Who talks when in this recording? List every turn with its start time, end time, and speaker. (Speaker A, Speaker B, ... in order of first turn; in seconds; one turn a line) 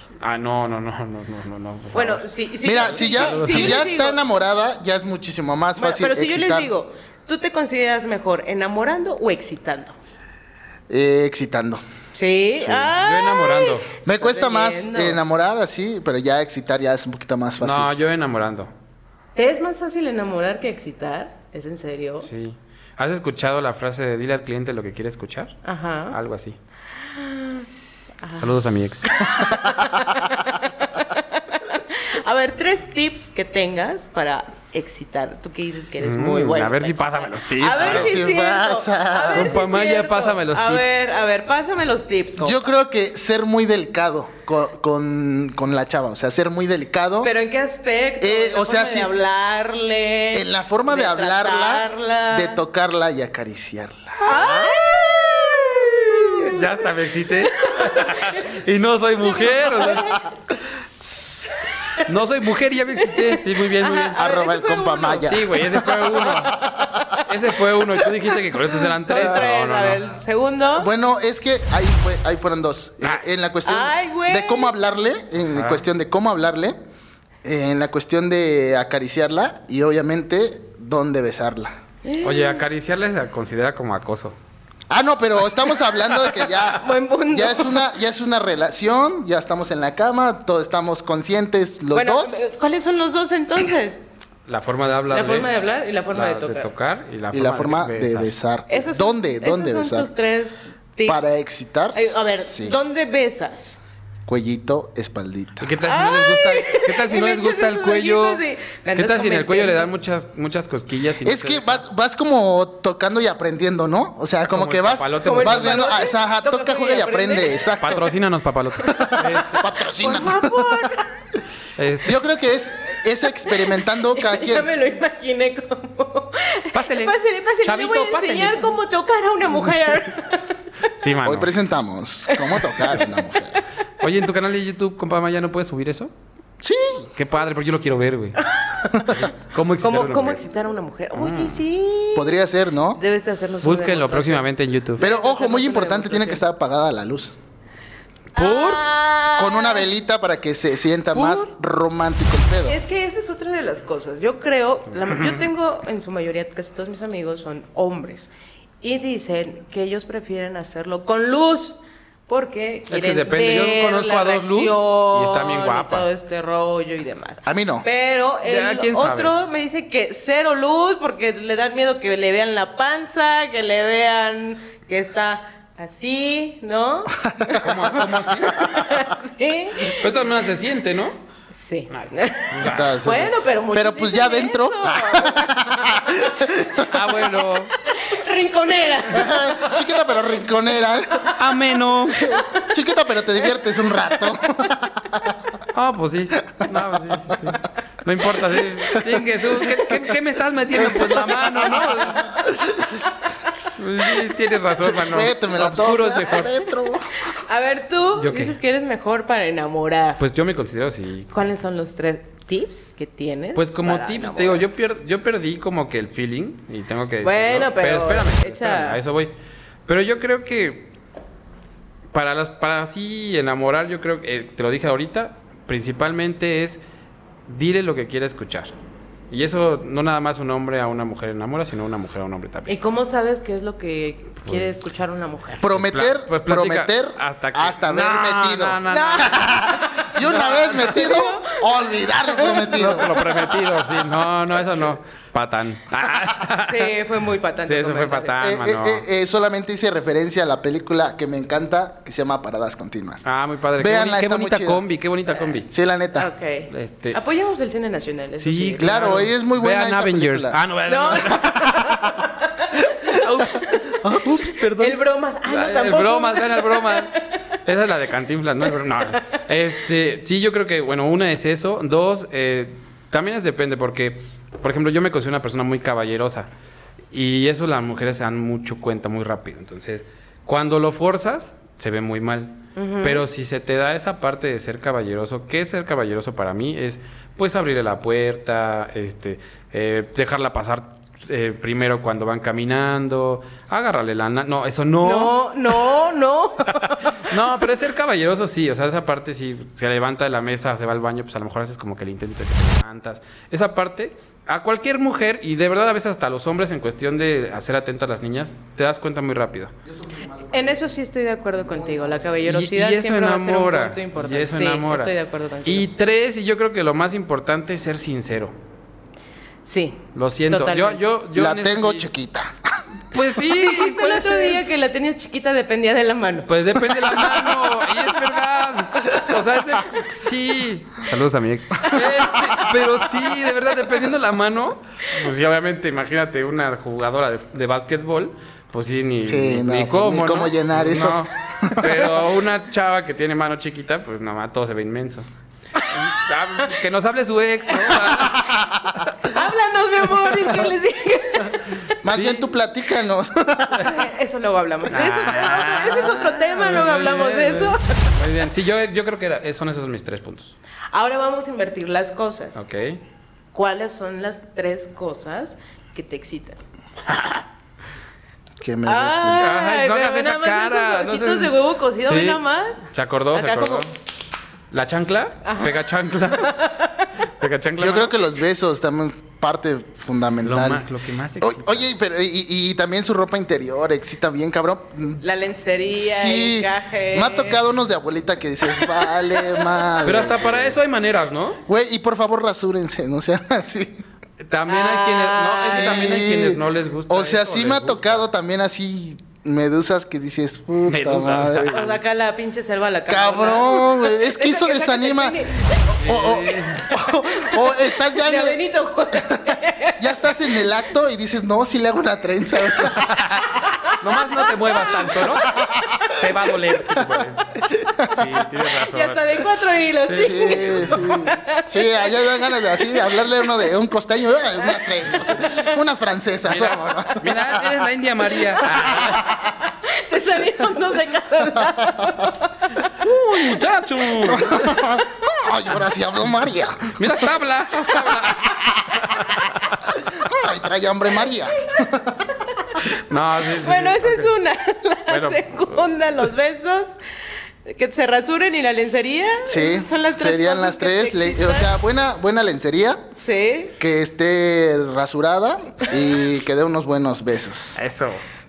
Speaker A: 0.2-3.9
Speaker B: 1.9-4.2
Speaker C: 2.6-6.7
Speaker B: 5.8-10.0
Speaker C: 10.9-11.8
Speaker B: 12.1-15.2
Speaker C: 12.6-12.9
Speaker A: 13.0-13.9
Speaker C: 14.0-17.9
Speaker A: 17.6-18.7
Speaker B: 19.3-22.3
Speaker A: 22.2-25.6
Speaker B: 25.6-26.2
Speaker A: 26.1-26.6
Speaker B: 27.0-42.7
Speaker A: 28.4-29.1
Speaker C: 29.3-30.1
Speaker A: 36.0-38.2
Speaker C: 37.7-39.6
Speaker A: 39.3-41.0
Speaker C: 42.4-47.3
Speaker B: 47.2-52.6
Speaker C: 48.2-49.1
Speaker C: 50.3-56.4
Speaker B: 54.2-56.6
Speaker A: 56.4-60.2
Speaker B: 57.6-58.5
Speaker B: 59.2-60.3
Speaker C: 61.0-62.0
Speaker B: 61.8-62.1
Speaker A: 62.0-64.2
Speaker B: 63.0-65.3
Speaker C: 64.2-66.8
Speaker A: 65.2-66.6
Speaker B: 66.5-67.3
Speaker A: 67.2-70.0
Speaker B: 69.0-70.9
Speaker C: 69.2-69.5
Speaker C: 70.8-76.8
Speaker B: 73.6-74.7
Speaker A: 75.4-75.8
Speaker C: 77.4-81.8
Speaker B: 82.0-82.6
Speaker A: 82.2-84.3
Speaker C: 84.9-92.4
Speaker B: 86.7-87.8
Speaker B: 91.9-94.0
Speaker A: 94.5-95.5
Speaker B: 95.1-96.7
Speaker A: 96.1-98.3
Speaker C: 97.3-100.1
Speaker B: 98.7-101.3
Speaker C: 101.0-102.8
Speaker B: 101.9-103.8
Speaker C: 104.3-105.7
Speaker A: 105.6-108.4
Speaker B: 105.8-109.9
Speaker A: 108.9-111.8
Speaker C: 111.2-118.1
Speaker A: 114.5-116.0
Speaker B: 115.2-117.6
Speaker A: 117.8-119.7
Speaker C: 118.8-120.9
Speaker B: 120.0-121.1
Speaker A: 121.8-122.2
Speaker C: 122.0-124.7
Speaker B: 123.5-130.6
Speaker A: 126.7-128.8
Speaker A: 130.9-131.5
Speaker C: 131.2-133.6
Speaker B: 132.3-133.0
Speaker A: 134.0-136.1
Speaker C: 136.6-137.1
Speaker A: 137.1-140.4
Speaker B: 138.5-139.1
Speaker B: 139.8-142.4
Speaker A: 141.1-141.6
Speaker C: 142.1-143.0
Speaker B: 142.9-144.4
Speaker A: 143.6-145.1
Speaker B: 145.0-146.4
Speaker C: 145.0-147.3
Speaker B: 148.3-149.9
Speaker A: 148.3-148.8
Speaker C: 149.4-152.8
Speaker B: 151.1-151.5
Speaker B: 152.6-180.1
Speaker A: 154.9-155.5
Speaker A: 162.9-166.1
Speaker C: 167.4-167.8
Speaker A: 168.4-169.3
Speaker C: 177.2-178.3
Speaker A: 177.6-178.7
Speaker A: 179.8-181.2
Speaker B: 181.5-186.9
Speaker A: 181.9-183.1
Speaker C: 182.6-186.9
Speaker A: 186.8-187.7
Speaker B: 187.8-190.1
Speaker C: 189.1-191.3
Speaker A: 191.3-192.4
Speaker B: 192.2-192.7
Speaker C: 192.6-195.3
Speaker A: 195.7-202.3
Speaker C: 200.8-203.0
Speaker B: 201.6-202.1
Speaker A: 203.8-206.7
Speaker C: 204.8-207.1
Speaker B: 207.4-210.2
Speaker A: 208.2-208.6
Speaker A: 210.2-211.3
Speaker B: 211.3-214.6
Speaker A: 213.5-219.3
Speaker B: 217.2-219.0
Speaker A: 219.8-220.9
Speaker A: 222.1-226.8
Speaker A: 227.5-228.7
Speaker A: 229.3-232.7
Speaker B: 232.7-235.7
Speaker A: 234.4-234.9
Speaker C: 235.6-243.1
Speaker A: 235.7-241.1
Speaker B: 238.9-243.7
Speaker A: 242.7-246.9
Speaker B: 246.6-248.3
Speaker A: 247.6-249.1
Speaker C: 248.4-253.2
Speaker A: 253.2-255.7
Speaker C: 253.8-254.8
Speaker C: 255.7-256.3
Speaker B: 256.1-258.9
Speaker A: 256.7-257.2
Speaker A: 258.4-261.7
Speaker C: 258.8-260.6
Speaker B: 260.9-267.4
Speaker C: 261.3-262.2
Speaker A: 263.1-276.5
Speaker C: 264.0-264.5
Speaker A: 277.1-295.9
Speaker B: 282.8-283.2
Speaker B: 295.0-297.4
Speaker A: 297.1-309.7
Speaker C: 309.8-310.9
Speaker B: 310.5-315.9
Speaker C: 311.5-312.4
Speaker A: 312.4-318.5
Speaker B: 319.6-321.0
Speaker A: 320.1-322.1
Speaker C: 321.3-322.5
Speaker A: 323.1-324.6
Speaker B: 323.4-326.5
Speaker A: 326.5-345.3
Speaker C: 339.2-341.9
Speaker A: 345.9-349.1
Speaker B: 347.8-348.3
Speaker C: 348.3-348.9
Speaker B: 349.2-352.0
Speaker C: 352.0-354.0
Speaker A: 352.1-352.5
Speaker B: 353.8-358.2
Speaker A: 354.9-360.5
Speaker B: 360.9-362.6
Speaker A: 362.6-363.0
Speaker B: 363.5-366.6
Speaker C: 368.6-369.4
Speaker B: 368.8-373.9
Speaker A: 369.3-373.9
Speaker A: 374.7-376.6
Speaker B: 375.4-377.2
Speaker A: 377.4-378.2
Speaker C: 377.8-380.9
Speaker A: 380.4-381.9
Speaker C: 381.4-385.2
Speaker B: 385.2-387.6
Speaker C: 385.9-390.7
Speaker B: 388.7-389.9
Speaker A: 390.0-391.6
Speaker C: 391.6-394.0
Speaker A: 394.4-398.2
Speaker B: 394.7-396.3
Speaker C: 395.4-401.8
Speaker A: 400.9-402.0
Speaker B: 401.7-406.5
Speaker C: 403.1-405.5
Speaker A: 406.0-406.9
Speaker C: 406.0-413.3
Speaker B: 407.3-410.6
Speaker A: 412.9-419.4
Speaker B: 413.4-416.2
Speaker C: 415.5-416.0
Speaker C: 417.7-418.4
Speaker B: 418.6-423.7
Speaker A: 420.0-421.1
Speaker C: 420.2-427.9
Speaker B: 424.6-425.6
Speaker A: 426.4-429.3
Speaker C: 428.4-429.5
Speaker B: 429.6-432.9
Speaker C: 431.7-432.1
Speaker A: 433.0-434.9
Speaker C: 433.0-433.5
Speaker C: 434.2-437.3
Speaker A: 436.9-439.9
Speaker C: 438.5-442.3
Speaker B: 442.3-442.8
Speaker A: 442.9-444.3
Speaker B: 443.5-446.9
Speaker A: 445.1-445.8
Speaker B: 447.6-451.7
Speaker C: 449.4-453.0
Speaker B: 453.1-453.7
Speaker C: 453.8-457.8
Speaker A: 457.8-458.2